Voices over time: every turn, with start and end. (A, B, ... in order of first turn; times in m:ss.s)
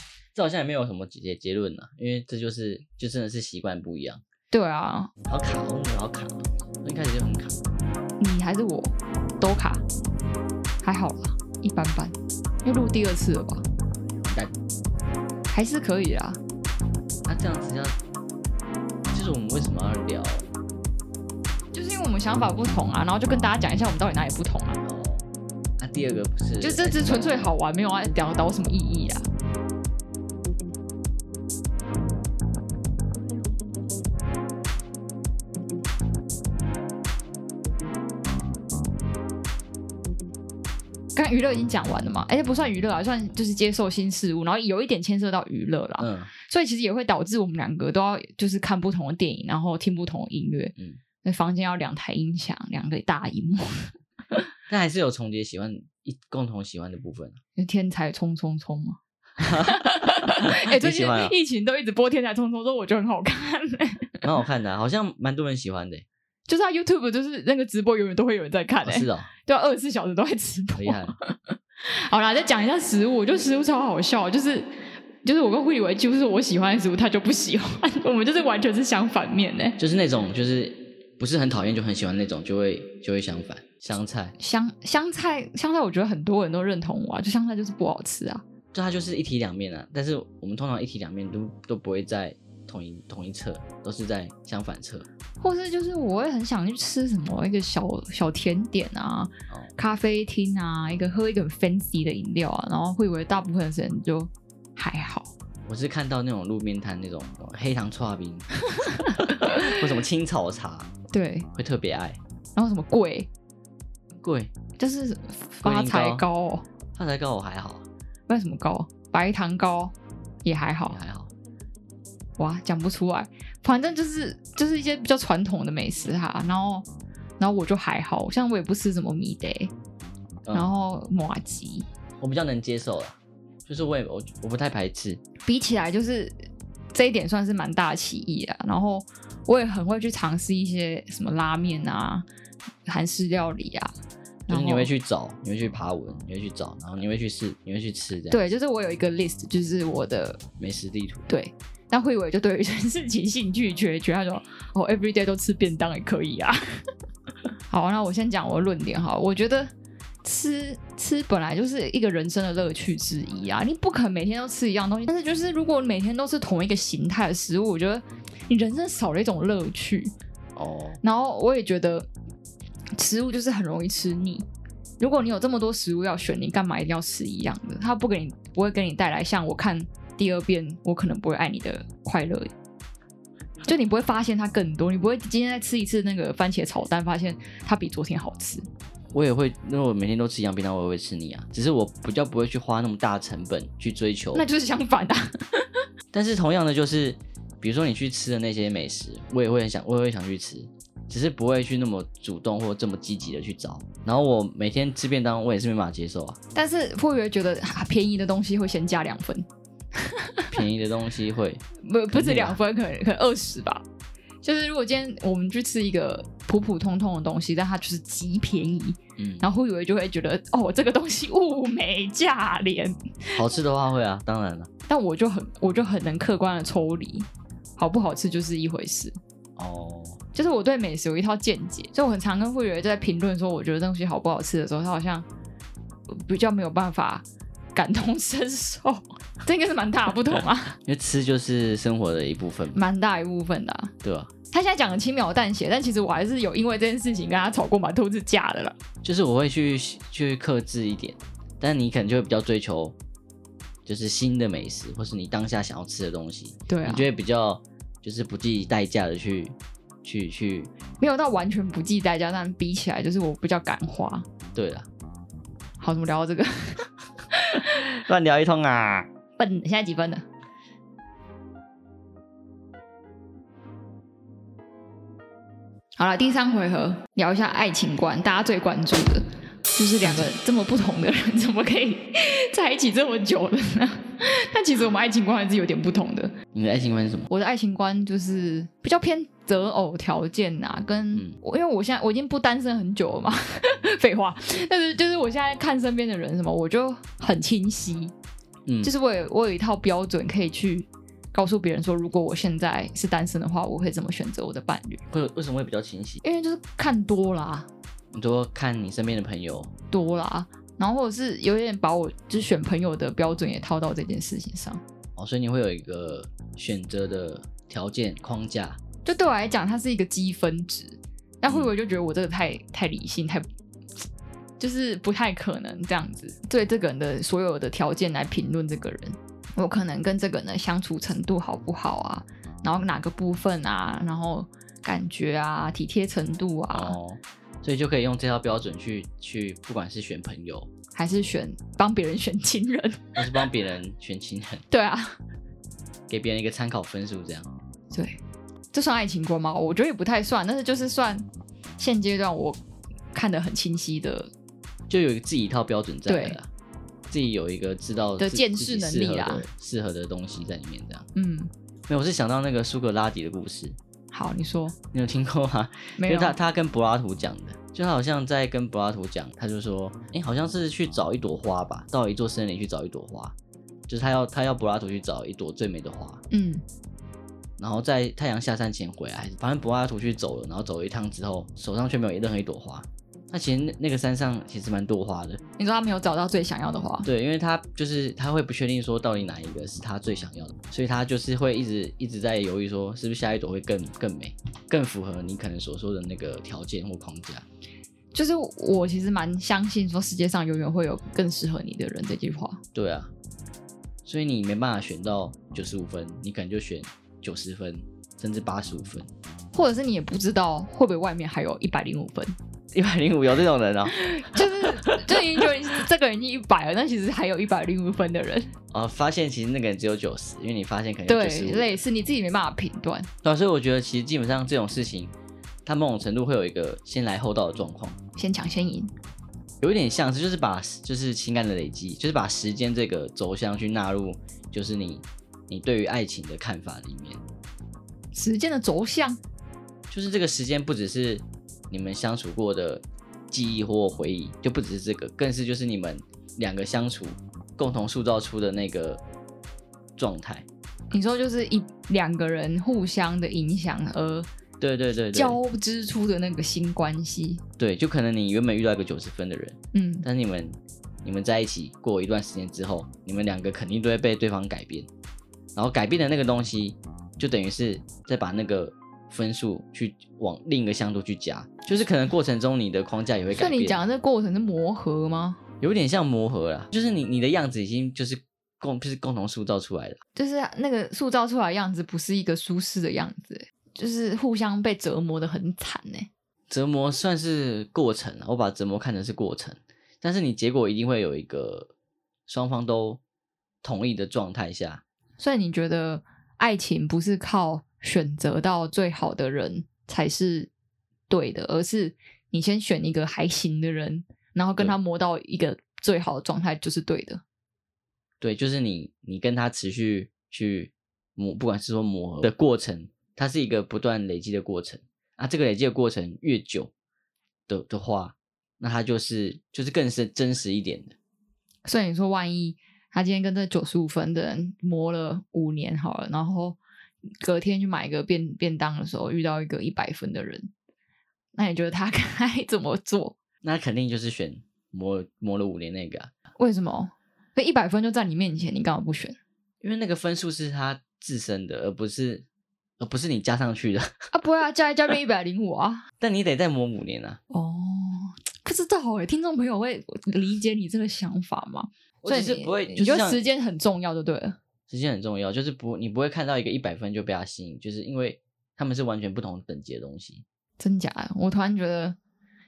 0:00.4-0:04.2 A
0:04.5-0:05.1 B
0:05.3-0:07.6 A
0:08.2-0:09.8 B
0:10.8-0:13.6 B
0:14.2-0:14.5 A
0:15.5-0:16.4 B
0:17.2-0:18.0 A
0:19.1-0:20.5 A
0:21.7-0:24.8 B
0:24.8-0:25.3 A
0:25.8-0:27.5 A
0:26.6-0:29.3 B
0:41.2-0:54.4 B
0:46.0-0:46.3 A
0:54.7-0:57.4 A
0:57.6-1:04.3 B
0:59.4-1:01.4 A
1:04.2-1:06.1 A
1:06.5-1:14.7 B
1:08.8-1:09.3 A
1:10.8-1:11.2 A
1:15.2-1:19.8 B
1:19.8-1:24.4 A
1:24.4-1:28.4 B
1:28.7-1:35.1 A
1:35.4-1:45.3 B
1:45.6-1:50.9 A
1:48.7-1:49.8 B
1:51.1-1:51.5 B
1:51.5-1:52.2 A
1:52.6-1:53.3 B
1:54.2-1:54.5 A
1:54.8-1:56.7 B
1:55.6-1:56.2 A
1:57.0-1:57.8 A
1:58.3-2:01.0 B
2:00.9-2:01.3 A
2:02.4-2:06.9 B
2:07.4-2:09.7 B
2:10.4-2:10.7 A
2:10.5-2:11.9 B
2:12.2-2:15.2 A
2:15.4-2:16.4 B
2:16.9-2:22.2 B
2:22.9-2:23.9 B
2:24.5-2:24.9 B
2:24.5-2:28.4 A
2:28.3-2:30.4 B
2:30.6-2:31.3 A
2:31.3-2:36.6 B
2:37.7-2:39.7 B
2:40.2-2:50.1 B
2:50.6-2:51.0 A
2:51.0-2:52.1 B
2:53.0-2:54.5 B
2:55.0-3:02.5 B
3:03.7-3:08.6 B
3:09.1-3:14.5 A
3:14.3-3:15.8 B
3:16.1-3:26.4 A
3:26.6-3:30.6 B
3:30.5-3:32.6 A
3:31.8-3:33.8 B
3:34.4-3:43.4 B
3:39.2-3:39.5 A
3:43.4-3:44.7 A
3:44.9-3:49.2 B
3:49.6-3:50.2 A
3:50.3-3:55.3 B
3:56.1-4:00.8 B
4:00.8-4:02.8 A
4:02.7-4:03.9 B
4:04.0-4:04.3 A
4:04.5-4:08.8 B
4:09.0-4:13.0 A
4:13.9-4:20.7 A
4:16.7-4:17.1 B
4:21.0-4:24.3 B
4:24.6-4:24.9 A
4:25.8-4:27.7 B
4:27.7-4:29.1 A
4:29.4-4:30.2 B
4:36.0-4:46.4 B
4:46.5-4:47.3 A
4:47.3-4:58.1 B
4:58.7-4:58.9 A
4:58.8-5:05.0 B
5:05.1-5:06.2 A
5:06.2-5:07.7 B
5:08.1-5:09.7 A
5:09.9-5:14.8 B
5:15.2-5:18.8 A
5:19.0-5:23.4 B
5:24.6-5:37.0 B
5:36.7-5:40.7 A
5:41.0-5:43.3 B
5:43.2-5:44.7 A
5:44.7-5:45.2 B
5:46.1-5:47.5 A
5:47.9-5:48.2 B
5:48.7-5:51.2 B
5:51.8-5:52.6 B
5:53.1-5:54.3 B
5:54.9-5:56.5 A
5:56.1-5:56.4 B
5:57.1-6:01.1 A
5:58.2-5:59.4 B
6:01.2-6:01.5 B
6:01.9-6:03.8 A
6:04.1-6:04.8 B
6:04.9-6:13.4 A
6:06.0-6:06.4 B
6:13.9-6:16.2 A
6:16.3-6:16.6 B
6:17.6-6:25.4 A
6:25.6-6:27.1 B
6:27.0-6:37.4 A
6:38.1-6:42.6 B
6:42.8-6:43.1 A
6:44.0-6:49.1 A
6:49.5-6:52.4 B
6:52.7-6:55.1 A
6:53.9-6:58.5 B
6:58.7-7:01.8 A
7:01.1-7:03.1 B
7:03.2-7:05.1 A
7:05.6-7:08.0 A
7:08.2-7:08.9 B
7:09.6-7:17.2 A
7:18.1-7:19.2 B
7:19.9-7:29.0 A
7:30.0-7:30.5 A
7:30.9-7:34.3 B
7:34.6-7:35.4 A
7:35.1-7:37.4 B
7:37.6-7:44.9 A
7:39.7-7:40.1 B
7:45.6-7:53.8 A
7:53.3-7:55.4 B
7:55.6-8:00.0 A
8:00.2-8:06.1 B
8:06.5-8:11.7 A
8:12.3-8:13.0 A
8:13.6-8:14.8 A
8:15.2-8:20.5 B
8:21.1-8:27.2 B
8:28.2-8:36.7 A
8:37.5-8:41.0 A
8:41.6-8:46.6 B
8:47.2-8:50.5 B
8:51.4-8:53.2 B
8:53.4-8:56.1 A
8:56.4-8:59.2 B
8:59.6-9:02.2 A
9:02.8-9:03.9 A
9:04.1-9:05.8 B
9:06.0-9:07.2 A
9:07.3-9:14.4 B
9:12.0-9:13.2 A
9:14.7-9:20.2 A
9:20.6-9:22.0 B